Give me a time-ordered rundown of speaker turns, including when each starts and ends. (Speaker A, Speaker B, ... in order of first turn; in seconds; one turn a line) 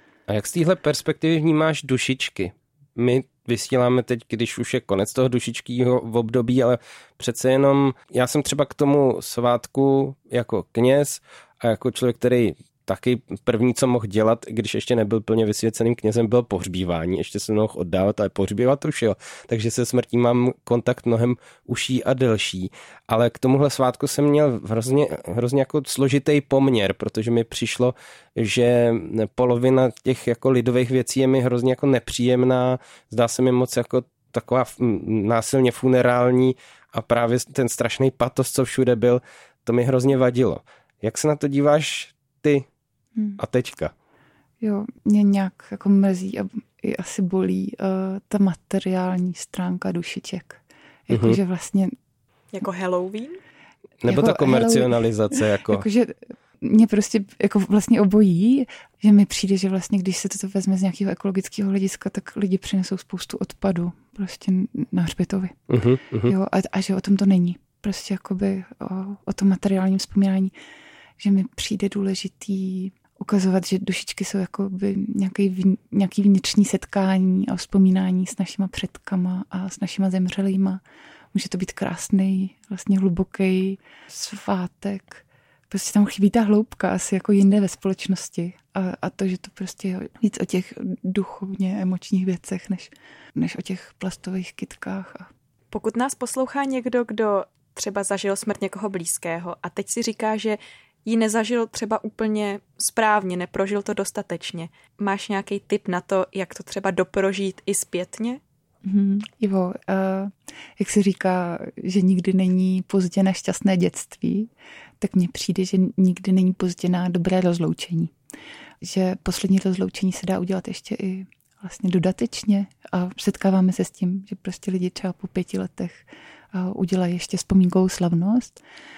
Speaker A: 0.3-42.7
Speaker A: 43.4-43.9
Speaker B: 44.6-51.9
Speaker A: 51.1-51.4
Speaker C: 52.5-53.4
Speaker A: 54.0-55.9
Speaker B: 54.1-65.6
Speaker A: 65.7-66.3
Speaker B: 66.2-70.5
Speaker B: 71.2-80.8
Speaker B: 81.3-95.3
Speaker C: 95.7-108.4
Speaker B: 108.8-118.1
Speaker B: 118.8-128.6